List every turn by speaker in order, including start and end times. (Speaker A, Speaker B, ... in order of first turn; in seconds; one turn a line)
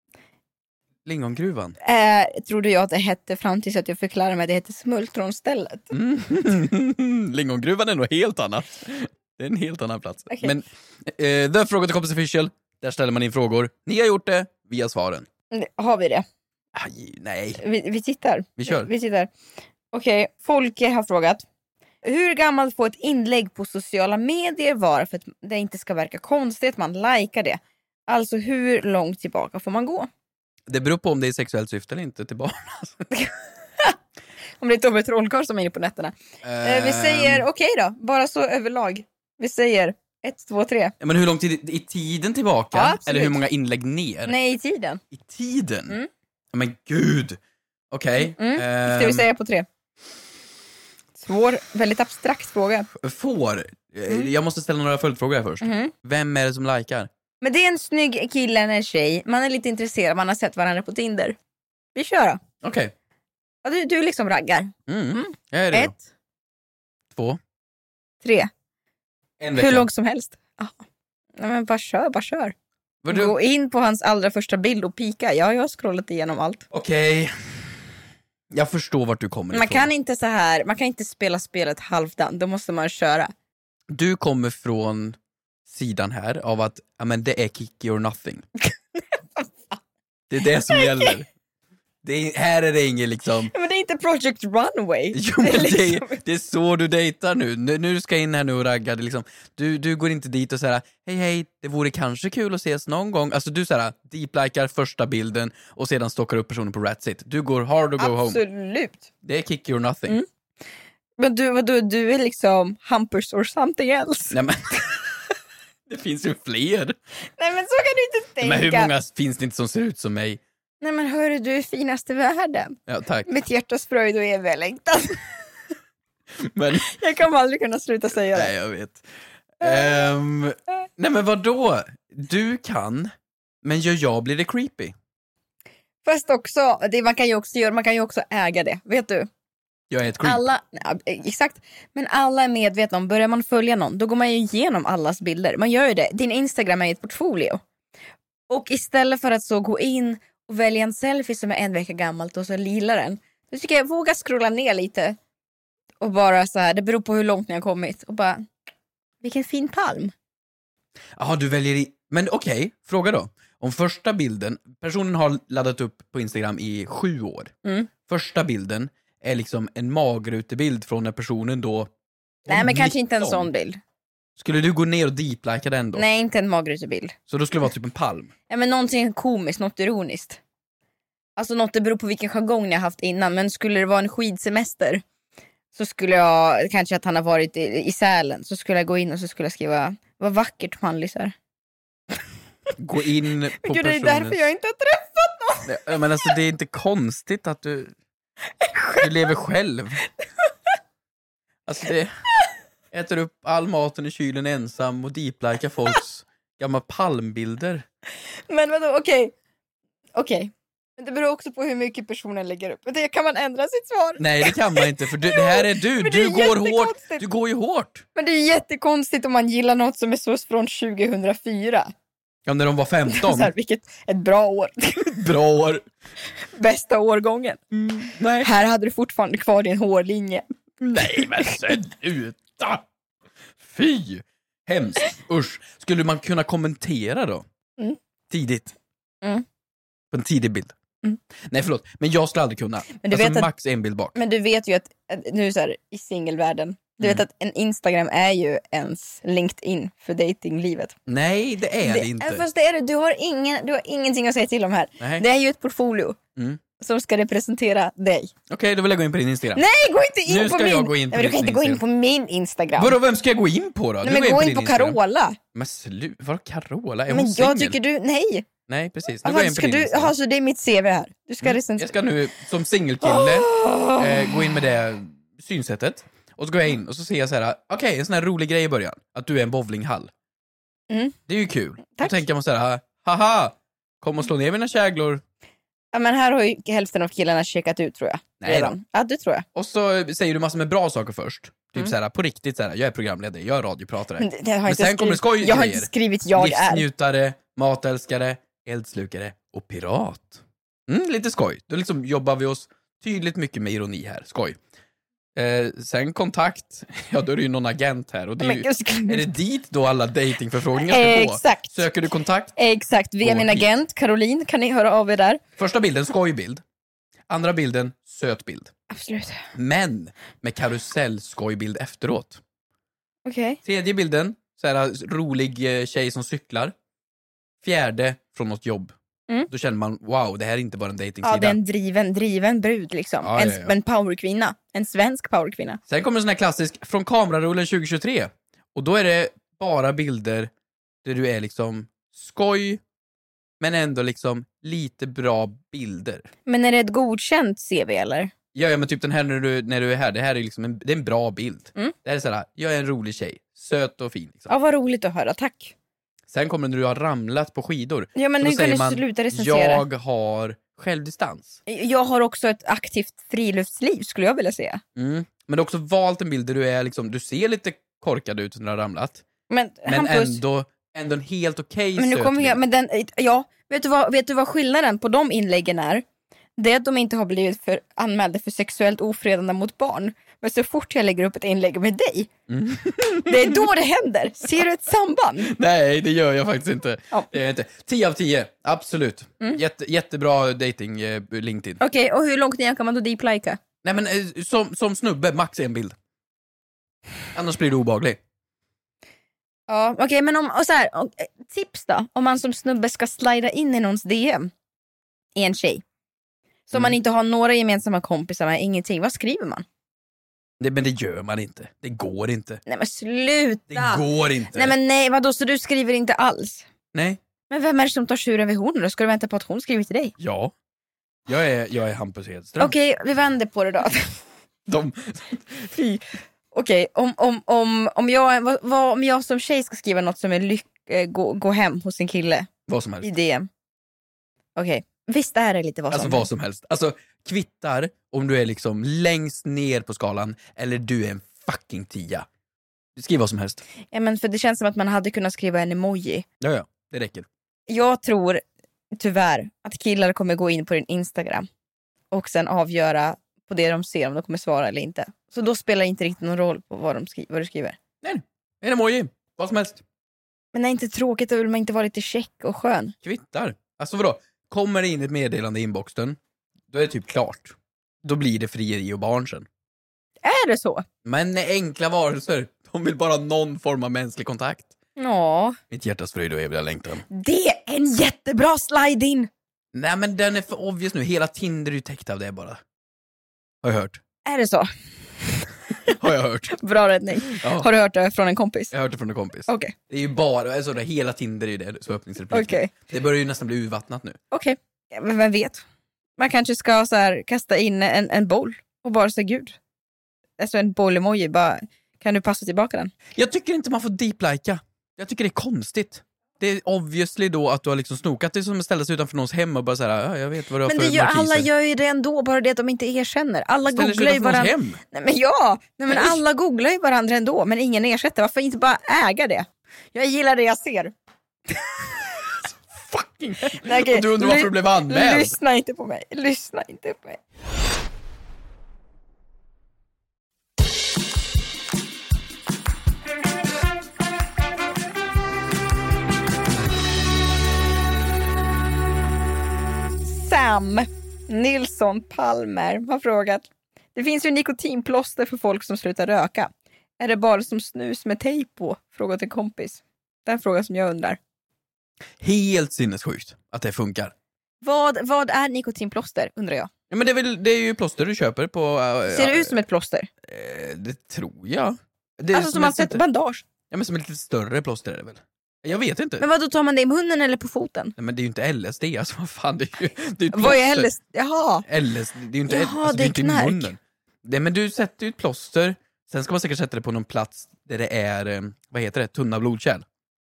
Speaker A: 1.1-1.8
Speaker B: 1.8-5.9
Speaker A: 5.9-15.3
Speaker B: 15.5-16.2
Speaker A: 16.8-17.6
Speaker B: 17.6-19.3
Speaker A: 18.6-18.9
Speaker B: 19.9-21.4
Speaker B: 22.0-30.1
Speaker A: 30.7-33.1
Speaker B: 33.1-34.0
Speaker B: 34.6-40.9
Speaker A: 36.4-37.5
Speaker A: 41.0-44.4
Speaker B: 42.7-43.4
Speaker B: 44.3-45.0
Speaker A: 45.1-46.0
Speaker A: 46.5-47.4
Speaker A: 47.9-49.3
Speaker B: 48.2-49.7
Speaker B: 51.2-52.9
Speaker A: 53.0-57.1
Speaker B: 55.6-55.9
Speaker B: 57.4-61.4
Speaker B: 62.0-62.4
Speaker A: 62.6-62.9
Speaker B: 63.6-66.0
Speaker A: 64.9-65.9
Speaker A: 67.1-67.4
Speaker B: 68.2-68.5
Speaker A: 69.4-69.9
Speaker B: 69.5-70.8
Speaker B: 71.4-72.5
Speaker A: 73.0-73.3
Speaker B: 73.1-76.7
Speaker A: 76.7-77.7
Speaker A: 78.5-79.9
Speaker B: 79.5-83.3
Speaker A: 83.9-85.2
Speaker A: 85.7-88.5
Speaker B: 89.4-89.8
Speaker A: 90.3-91.3
Speaker B: 90.7-91.1
Speaker A: 92.0-93.5
Speaker B: 93.5-96.2
Speaker A: 95.1-108.4
Speaker B: 108.0-109.0
Speaker A: 109.2-110.2
Speaker B: 111.2-114.4
Speaker A: 114.3-115.1
Speaker A: 115.9-117.0
Speaker B: 117.4-118.9
Speaker A: 118.4-120.4
Speaker B: 120.8-125.2
Speaker A: 122.9-123.3
Speaker A: 126.4-126.9
Speaker B: 126.9-128.5
Speaker A: 128.3-129.0
Speaker A: 129.6-133.1
Speaker B: 129.6-129.9
Speaker A: 133.6-134.9
Speaker B: 136.1-139.3
Speaker A: 139.9-140.4
Speaker B: 140.2-147.6
Speaker B: 148.5-155.2
Speaker B: 156.0-158.5
Speaker B: 159.2-160.1
Speaker A: 161.2-167.5
Speaker A: 168.1-171.9
Speaker B: 172.5-173.8
Speaker A: 172.5-173.5
Speaker A: 174.4-176.1
Speaker B: 175.9-177.2
Speaker A: 177.3-178.3
Speaker B: 178.5-180.4
Speaker B: 181.4-185.0
Speaker B: 185.7-191.3
Speaker A: 192.8-194.5
Speaker B: 193.6-196.0
Speaker A: 195.7-197.9
Speaker B: 198.6-199.1
Speaker A: 199.0-200.1
Speaker A: 201.7-202.1
Speaker A: 202.9-207.8
Speaker B: 208.5-209.3
Speaker B: 210.2-217.2
Speaker A: 214.2-218.1
Speaker B: 218.2-221.9
Speaker A: 222.5-223.5
Speaker B: 223.1-225.2
Speaker A: 225.0-225.8
Speaker B: 226.6-227.8
Speaker A: 227.9-228.5
Speaker B: 228.4-230.4
Speaker A: 230.8-232.8
Speaker A: 233.6-237.4
Speaker A: 238.3-238.7
Speaker A: 240.1-240.7
Speaker A: 241.5-244.2
Speaker B: 243.0-243.5
Speaker B: 244.2-250.9
Speaker A: 251.1-252.4
Speaker B: 251.8-256.2
Speaker A: 255.0-255.2
Speaker B: 256.8-258.3
Speaker A: 258.5-259.6
Speaker B: 259.6-263.0
Speaker A: 260.3-261.8
Speaker A: 262.8-265.0
Speaker B: 264.0-265.4
Speaker A: 265.5-267.8
Speaker B: 267.1-268.5
Speaker A: 268.7-270.1
Speaker B: 269.2-271.9
Speaker A: 271.4-280.1
Speaker B: 273.0-274.5
Speaker B: 280.9-281.1
Speaker A: 281.3-285.2
Speaker B: 285.9-289.4
Speaker A: 288.4-288.7
Speaker A: 289.6-304.6
Speaker B: 294.2-296.8
Speaker A: 305.4-312.6
Speaker B: 308.4-309.2
Speaker B: 310.9-311.9
Speaker B: 312.6-315.4
Speaker A: 313.2-313.7
Speaker A: 315.6-316.6
Speaker A: 317.3-318.7
Speaker B: 318.9-319.4
Speaker A: 319.5-322.4
Speaker B: 323.2-323.6
Speaker A: 323.6-326.7
Speaker A: 327.6-328.9
Speaker A: 329.5-331.6
Speaker B: 331.2-335.8
Speaker A: 333.2-333.7
Speaker A: 335.9-340.5
Speaker A: 341.0-342.8
Speaker A: 343.6-346.3
Speaker B: 346.5-348.3
Speaker A: 348.5-354.5
Speaker B: 354.5-355.7
Speaker A: 356.3-361.6
Speaker B: 358.2-359.8
Speaker B: 361.7-364.8
Speaker A: 365.0-369.2
Speaker B: 369.5-370.4
Speaker A: 369.9-372.6
Speaker B: 372.0-376.1
Speaker B: 376.6-382.3
Speaker A: 382.5-383.7
Speaker B: 383.3-385.5
Speaker A: 385.5-391.8
Speaker B: 391.8-393.6
Speaker A: 393.8-395.9
Speaker A: 397.3-398.2
Speaker B: 399.7-404.5
Speaker B: 405.4-405.8
Speaker B: 406.7-409.6
Speaker A: 410.6-412.6
Speaker B: 412.7-414.0
Speaker A: 413.7-414.8
Speaker B: 414.5-416.6
Speaker A: 416.9-417.2
Speaker B: 417.5-420.1
Speaker A: 420.2-420.5
Speaker A: 421.3-422.7
Speaker B: 422.6-424.2
Speaker A: 424.7-425.7
Speaker B: 425.7-432.5
Speaker A: 432.7-433.1
Speaker B: 433.0-433.5
Speaker B: 434.6-436.3
Speaker A: 435.9-442.3
Speaker A: 443.0-443.6
Speaker B: 443.9-446.2
Speaker A: 446.4-447.3
Speaker B: 447.7-448.4
Speaker B: 448.9-451.5
Speaker B: 452.1-457.8
Speaker A: 458.0-459.8
Speaker B: 460.5-462.9
Speaker A: 463.0-466.2
Speaker A: 466.7-469.5
Speaker B: 470.2-470.9
Speaker A: 471.1-474.7
Speaker B: 475.0-475.6
Speaker A: 475.7-477.1
Speaker B: 477.1-479.3
Speaker A: 479.7-482.6
Speaker A: 483.6-484.0
Speaker B: 484.2-484.7
Speaker B: 485.2-485.9
Speaker A: 485.9-486.6
Speaker B: 486.5-488.7
Speaker A: 487.3-487.7
Speaker A: 488.7-494.2
Speaker B: 489.5-489.7
Speaker B: 492.3-492.7
Speaker B: 494.3-495.6
Speaker B: 496.2-499.6
Speaker B: 500.4-502.9
Speaker A: 503.1-511.5
Speaker B: 510.7-520.9
Speaker A: 513.7-514.8
Speaker A: 515.9-516.2
Speaker A: 522.7-525.3
Speaker B: 523.6-527.2
Speaker B: 540.0-551.2
Speaker A: 552.2-554.1
Speaker B: 554.6-556.7
Speaker A: 556.9-559.6
Speaker B: 559.1-560.1
Speaker A: 560.2-563.0
Speaker B: 562.3-563.4
Speaker A: 563.7-566.3
Speaker B: 566.2-568.0
Speaker A: 568.0-570.9
Speaker B: 570.3-571.6
Speaker A: 571.7-579.8
Speaker B: 572.5-573.7